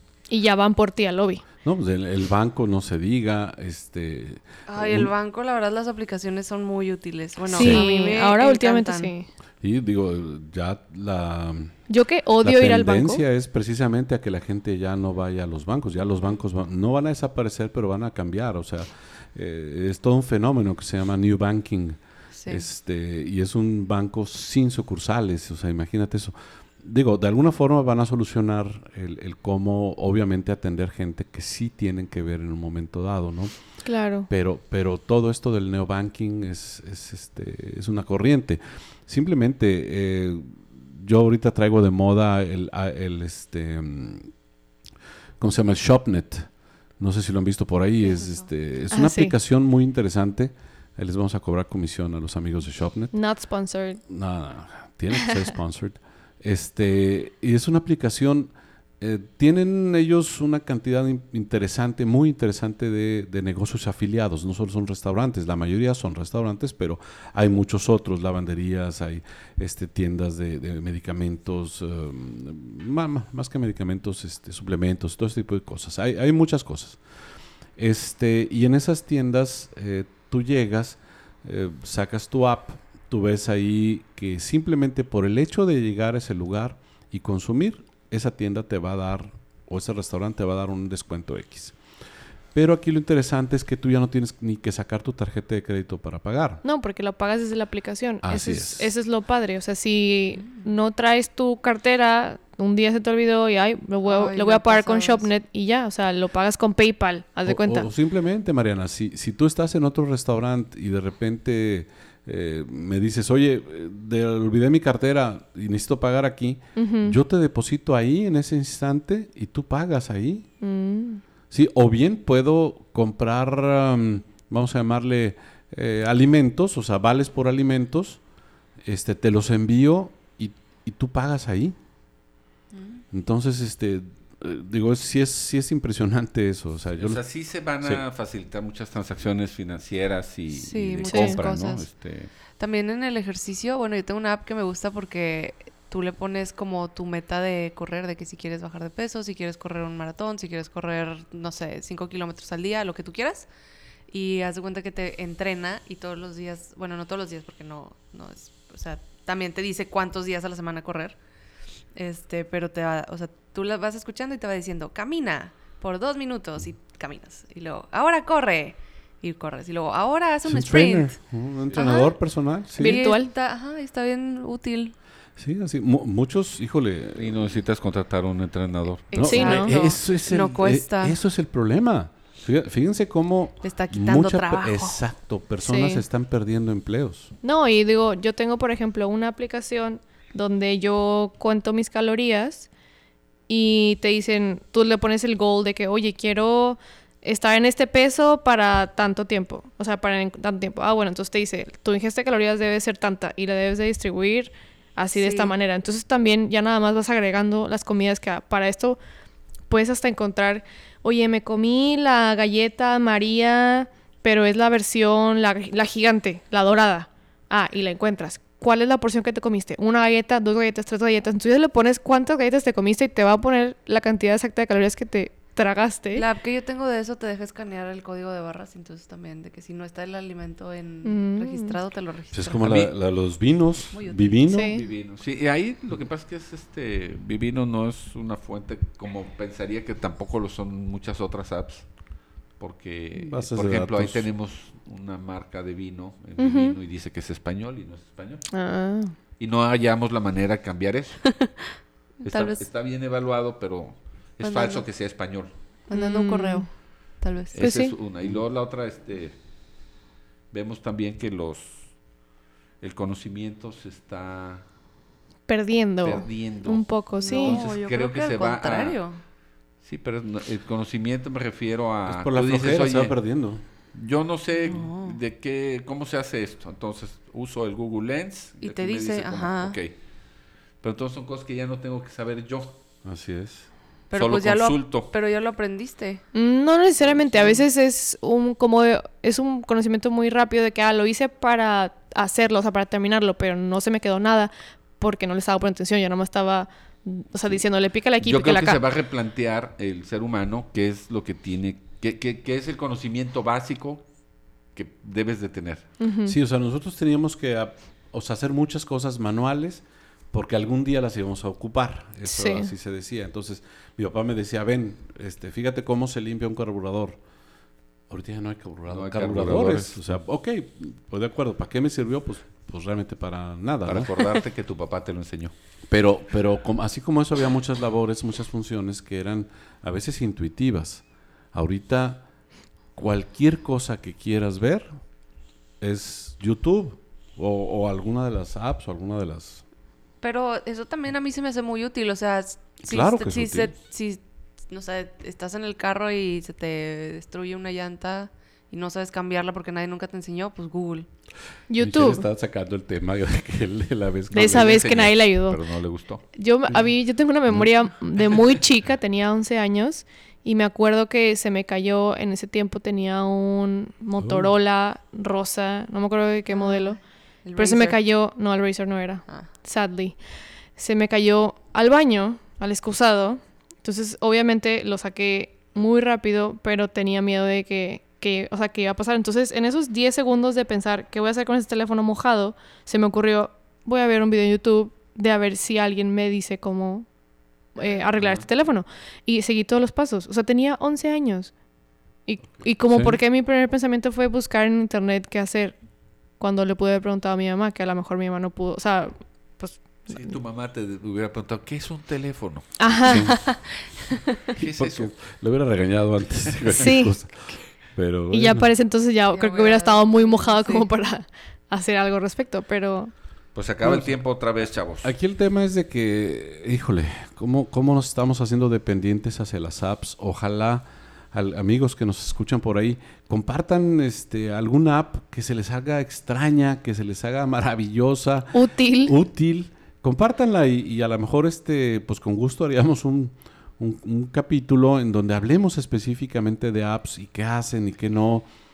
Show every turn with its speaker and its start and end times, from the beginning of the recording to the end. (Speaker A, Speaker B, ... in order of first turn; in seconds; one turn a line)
Speaker A: 0.3-1.4
Speaker B: 1.6-5.1
Speaker C: 4.7-9.1
Speaker A: 7.5-9.3
Speaker B: 7.6-7.9
Speaker B: 9.6-11.8
Speaker A: 11.9-13.2
Speaker B: 12.4-33.6
Speaker C: 22.4-22.7
Speaker A: 33.8-34.3
Speaker B: 34.3-44.3
Speaker B: 45.4-53.1
Speaker C: 48.0-48.5
Speaker A: 48.9-49.3
Speaker A: 53.1-54.0
Speaker B: 54.1-77.0
Speaker B: 77.8-91.8
Speaker B: 92.5-96.6
Speaker A: 96.6-107.9
Speaker B: 98.2-99.0
Speaker C: 104.0-105.3
Speaker B: 107.5-120.5
Speaker A: 116.8-117.2
Speaker A: 120.6-121.2
Speaker B: 121.5-128.2
Speaker B: 128.8-131.8
Speaker C: 132.7-133.0
Speaker B: 133.1-137.2
Speaker D: 137.0-142.3
Speaker C: 140.5-141.9
Speaker A: 141.1-141.4
Speaker C: 142.6-153.5
Speaker C: 154.1-161.2
Speaker C: 161.9-171.2
Speaker B: 170.4-173.0
Speaker C: 171.7-172.2
Speaker A: 172.8-173.3
Speaker C: 172.8-174.9
Speaker B: 175.4-177.6
Speaker D: 177.2-179.1
Speaker A: 179.1-179.7
Speaker C: 179.1-181.2
Speaker B: 179.1-187.3
Speaker C: 183.6-185.0
Speaker A: 185.6-186.0
Speaker A: 187.4-192.7
Speaker A: 193.5-209.0
Speaker C: 205.1-205.6
Speaker A: 209.7-226.2
Speaker C: 226.1-232.7
Speaker A: 231.0-231.8
Speaker B: 232.3-234.8
Speaker D: 232.6-232.9
Speaker C: 233.9-234.8
Speaker A: 234.5-234.8
Speaker D: 234.7-241.9
Speaker D: 242.6-248.4
Speaker B: 243.2-244.3
Speaker A: 246.4-246.8
Speaker A: 248.5-249.1
Speaker D: 249.4-251.3
Speaker C: 251.3-252.7
Speaker D: 252.2-255.5
Speaker C: 254.4-254.9
Speaker C: 255.9-256.7
Speaker A: 255.9-256.7
Speaker C: 257.2-257.6
Speaker D: 257.5-259.4
Speaker A: 257.6-257.9
Speaker D: 260.5-261.9
Speaker D: 262.8-264.6
Speaker A: 265.5-267.6
Speaker D: 266.0-269.0
Speaker C: 267.2-269.2
Speaker D: 269.8-273.2
Speaker B: 272.1-273.6
Speaker D: 273.9-279.9
Speaker C: 274.6-275.2
Speaker C: 278.6-279.8
Speaker D: 280.8-282.8
Speaker B: 283.0-283.7
Speaker C: 284.1-286.2
Speaker D: 284.1-285.1
Speaker A: 286.3-298.8
Speaker D: 298.2-304.0
Speaker D: 304.8-305.9
Speaker A: 306.0-306.4
Speaker B: 306.3-317.2
Speaker A: 312.3-312.7
Speaker B: 318.1-324.1
Speaker D: 318.9-320.0
Speaker D: 323.9-325.5
Speaker B: 325.9-332.2
Speaker B: 332.9-334.9
Speaker B: 335.8-339.6
Speaker C: 340.2-351.1
Speaker B: 342.8-343.8
Speaker A: 351.7-352.2
Speaker B: 351.8-355.1
Speaker A: 354.3-355.6
Speaker D: 354.4-356.2
Speaker A: 356.3-367.0
Speaker B: 364.2-364.6
Speaker C: 366.5-368.0
Speaker A: 367.6-370.2
Speaker A: 370.8-387.1
Speaker A: 387.8-391.5
Speaker D: 388.2-388.4
Speaker A: 392.3-395.8
Speaker B: 392.9-393.2
Speaker A: 396.4-400.3
Speaker D: 400.1-403.2
Speaker A: 402.8-403.3
Speaker B: 403.1-403.4
Speaker C: 403.3-403.6
Speaker D: 404.6-405.2
Speaker B: 404.6-408.7
Speaker A: 406.8-407.1
Speaker A: 408.3-413.1
Speaker C: 409.3-410.9
Speaker D: 413.6-415.1
Speaker B: 413.8-414.2
Speaker B: 415.0-438.5
Speaker A: 428.5-429.2